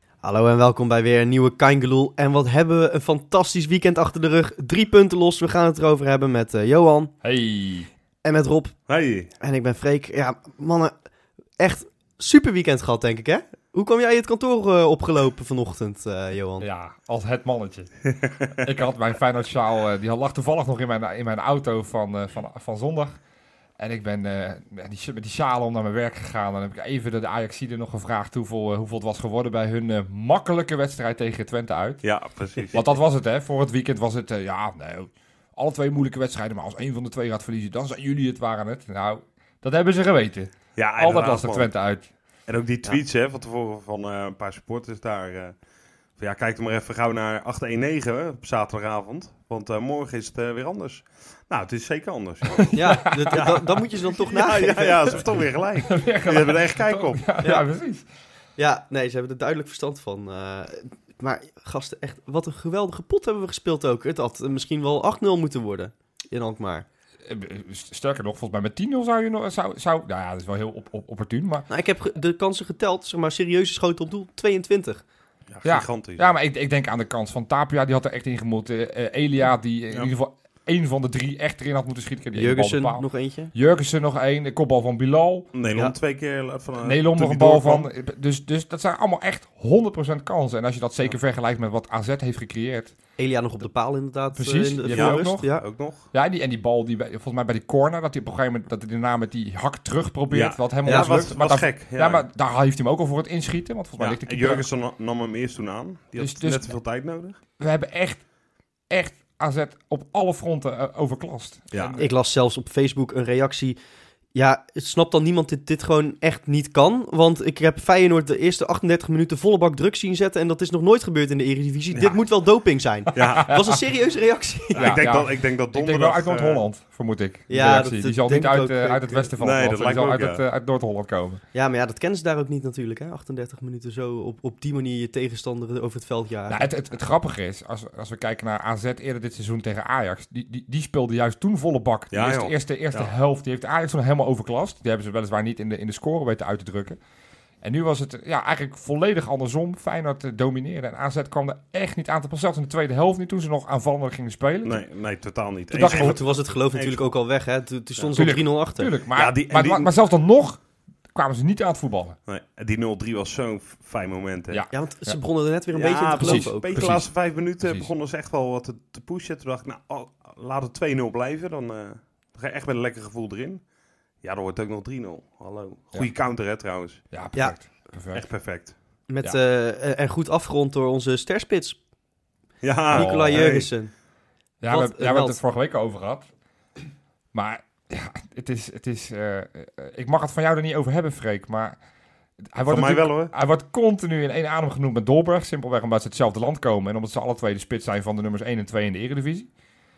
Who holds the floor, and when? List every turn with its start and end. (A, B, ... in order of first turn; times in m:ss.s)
0:00.2-0:07.1 A
0:07.2-0:07.9 B
0:08.2-0:08.8 A
0:08.9-0:09.3 C
0:09.4-0:10.9 A
0:11.6-0:16.6 A
0:16.6-0:17.9 B
0:18.1-0:18.5 C
0:18.6-0:23.2 B
0:23.8-0:32.0 B
0:32.0-0:32.8 C
0:32.7-0:42.1 B
0:40.8-0:41.7 C
0:42.5-0:45.6 C
0:46.2-0:57.3 C
0:52.5-0:53.6 B
0:52.7-0:55.2 A
0:55.4-0:58.0 B
0:58.6-1:06.8 A
1:07.2-1:11.7 B
1:11.7-1:15.0 A
1:15.5-1:16.3 C
1:15.6-1:25.5 B
1:22.4-1:23.5 A
1:25.5-1:27.9 C
1:26.8-1:32.9 B
1:33.2-1:35.6 A
1:34.4-1:35.5 B
1:34.9-1:36.1 C
1:36.1-1:44.7 B
1:40.3-1:42.2 C
1:40.8-1:41.3 A
1:44.0-1:47.4 C
1:46.2-1:46.7 B
1:47.6-1:48.2 B
1:48.9-1:52.0 B
1:51.7-1:52.0 C
1:52.0-1:53.8 A
1:54.3-2:05.0 A
2:01.9-2:02.2 C
2:03.1-2:03.5 C
2:03.5-2:03.8 B
2:04.7-2:06.6 C
2:04.8-2:11.4 B
2:07.5-2:09.3 A
2:09.4-2:10.4 C
2:11.5-2:16.7 A
2:16.5-2:27.0 B
2:22.1-2:23.1 C
2:27.6-2:34.8 B
2:34.6-2:37.1 C
2:35.7-2:36.2 B
2:35.8-2:38.9 A
2:38.2-2:40.6 B
2:39.1-2:39.9 C
2:41.1-2:42.2 B
2:42.3-2:44.6 C
2:44.5-2:45.2 B
2:44.7-2:46.9 A
2:45.7-2:53.6 C
2:46.2-2:47.9 B
2:54.2-2:57.0 C
2:57.1-2:58.3 B
2:58.1-2:58.7 C
2:59.1-3:01.8 A
3:02.6-3:03.7 C
3:02.9-3:03.5 B
3:02.9-3:03.9 A
3:04.6-3:06.3 B
3:04.7-3:05.4 A
3:07.3-3:11.8 B
3:12.5-3:19.5 B
3:12.7-3:13.3 C